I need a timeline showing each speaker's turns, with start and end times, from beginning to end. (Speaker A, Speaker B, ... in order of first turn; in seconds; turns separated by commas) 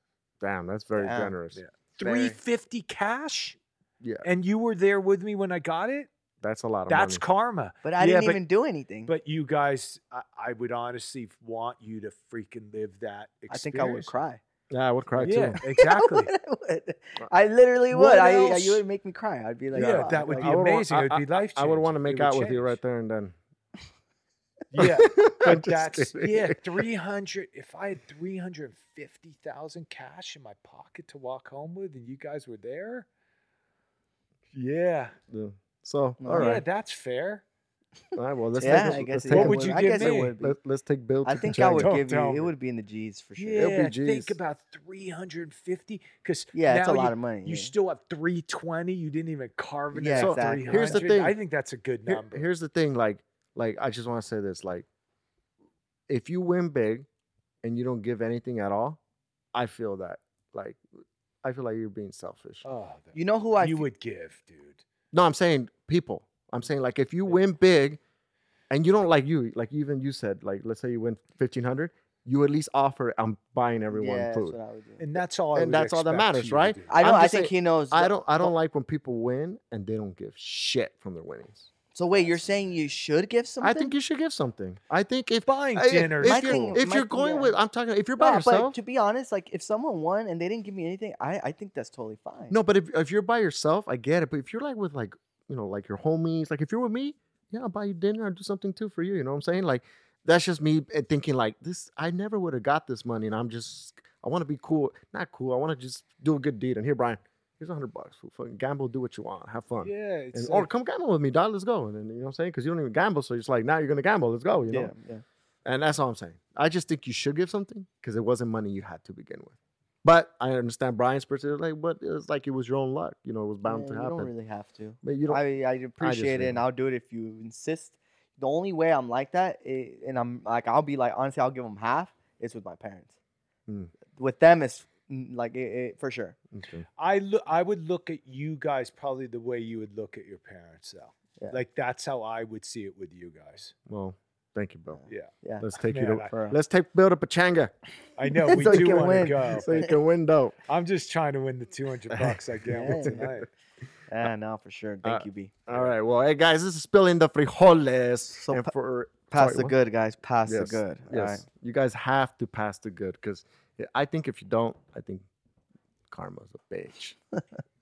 Speaker A: 0.4-1.6, Speaker B: 1.0-1.3, Speaker C: 1.5-3.6, Speaker B: 2.0-2.4, Speaker A: 4.0-4.3, Speaker C: 4.2-6.1, Speaker A: 6.4-7.2, Speaker C: 6.9-8.4, Speaker B: 7.8-9.1, Speaker C: 9.1-14.1, Speaker B: 13.5-14.4, Speaker A: 14.7-15.6, Speaker C: 15.2-16.3, Speaker B: 15.2-20.5, Speaker C: 17.9-18.8, Speaker C: 19.7-22.8, Speaker A: 19.7-23.3, Speaker C: 24.7-33.0, Speaker A: 24.8-26.6, Speaker C: 34.5-35.1, Speaker A: 35.3-36.6, Speaker B: 36.2-36.5, Speaker C: 36.3-37.4, Speaker A: 38.1-42.0, Speaker B: 38.6-40.5, Speaker C: 38.8-40.4, Speaker B: 41.2-43.8, Speaker C: 41.4-42.5, Speaker C: 43.4-52.5, Speaker A: 43.5-44.4, Speaker B: 46.5-47.7, Speaker B: 49.9-51.1, Speaker A: 50.1-51.4, Speaker A: 52.1-54.9, Speaker A: 56.1-57.0, Speaker A: 57.6-59.0, Speaker A: 59.5-60.8, Speaker A: 61.4-62.6, Speaker C: 62.6-64.8, Speaker B: 63.1-63.9, Speaker A: 65.1-68.0, Speaker A: 68.7-74.5, Speaker B: 73.9-75.0, Speaker C: 75.0-77.0, Speaker A: 75.5-81.7, Speaker B: 76.9-78.5, Speaker B: 81.9-83.9, Speaker C: 82.1-82.8, Speaker A: 83.6-88.8, Speaker C: 85.5-86.8, Speaker B: 86.2-87.5, Speaker B: 88.2-92.6, Speaker A: 92.5-114.9, Speaker C: 109.8-110.7, Speaker B: 114.7-115.2, Speaker A: 115.6-124.3, Speaker B: 123.6-133.1, Speaker A: 125.0-125.4, Speaker A: 126.0-126.6, Speaker B: 134.2-136.3, Speaker A: 136.5-136.8, Speaker C: 137.0-143.7, Speaker A: 143.9-145.0, Speaker B: 144.9-145.7, Speaker C: 145.1-145.3, Speaker A: 145.6-147.7, Speaker C: 145.9-146.3, Speaker B: 146.3-146.6, Speaker C: 148.2-149.8, Speaker B: 148.4-149.9, Speaker A: 148.5-150.6, Speaker C: 150.7-153.5, Speaker A: 152.1-153.3, Speaker B: 152.7-153.3, Speaker B: 154.1-155.5, Speaker A: 155.0-159.8, Speaker B: 158.4-158.7, Speaker B: 159.3-161.4, Speaker A: 160.4-165.2, Speaker A: 166.1-167.2